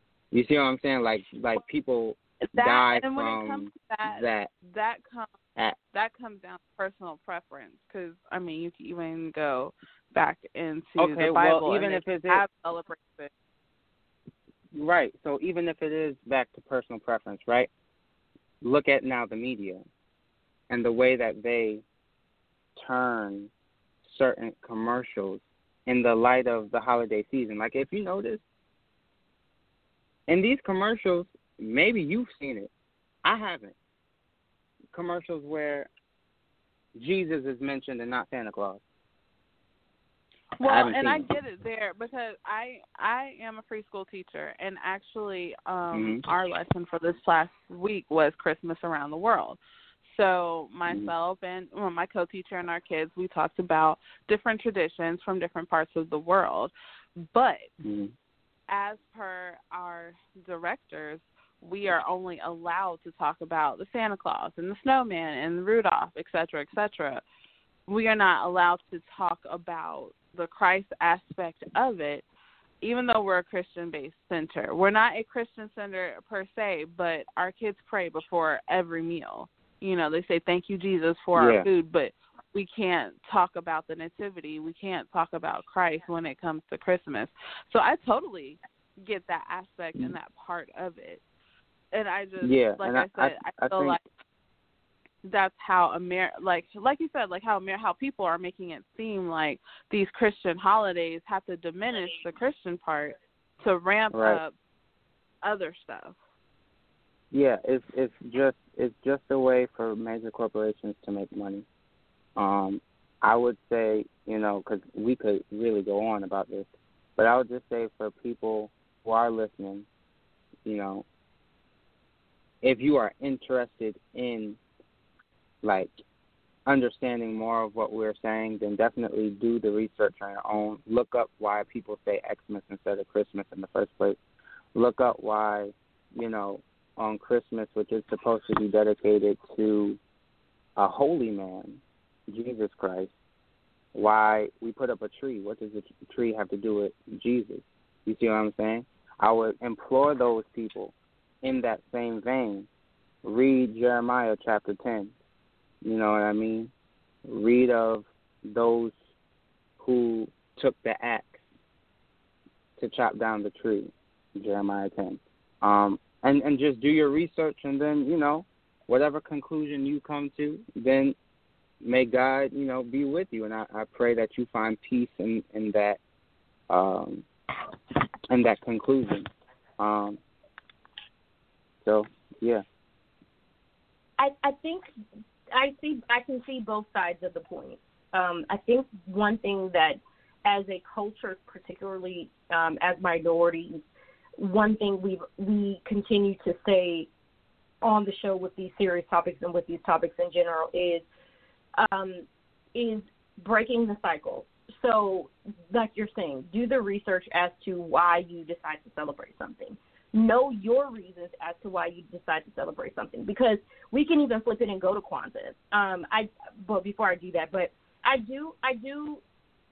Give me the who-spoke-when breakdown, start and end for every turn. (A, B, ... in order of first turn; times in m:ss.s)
0:00.3-0:04.5 A
0:02.4-0:05.3 B
0:05.9-0:13.3 B
0:11.0-0:12.4 A
0:14.7-0:17.7 A
0:18.6-0:19.8 A
0:20.7-0:21.8 A
0:22.8-0:23.5 A
0:24.0-0:28.4 A
0:30.3-0:32.7 A
0:33.2-0:33.8 A
0:34.9-0:35.9 A
0:37.0-0:38.8 A
0:40.6-0:57.7 B
0:40.6-0:41.3 A
0:45.9-0:46.2 A
0:50.9-0:51.1 A
0:57.8-0:58.1 A
0:58.7-1:07.2 B
1:07.9-1:12.2 B
1:12.8-1:31.2 B
1:21.4-1:21.7 A
1:31.9-1:34.0 B
1:32.4-1:34.0 A
1:35.2-1:44.5 B
1:44.1-1:44.4 A
1:45.4-1:46.2 B
1:47.3-1:51.7 A
1:52.4-1:59.9 A
2:00.6-2:01.1 A
2:02.6-2:04.6 A
2:05.6-2:06.0 A
2:06.7-2:14.2 A
2:14.8-2:20.0 A
2:20.8-2:23.1 A
2:24.0-2:32.7 A
2:33.2-2:35.2 A
2:35.8-2:36.7 A
2:37.2-2:39.0 A
2:39.8-2:41.4 A
2:42.8-2:51.2 A
2:51.8-2:56.0 A
2:56.7-2:57.3 A
2:58.3-3:00.2 A
3:01.8-3:02.6 A
3:04.2-3:04.9 C
3:05.5-3:13.8 C
3:14.4-3:17.1 C
3:17.8-3:21.0 C
3:21.8-3:39.2 C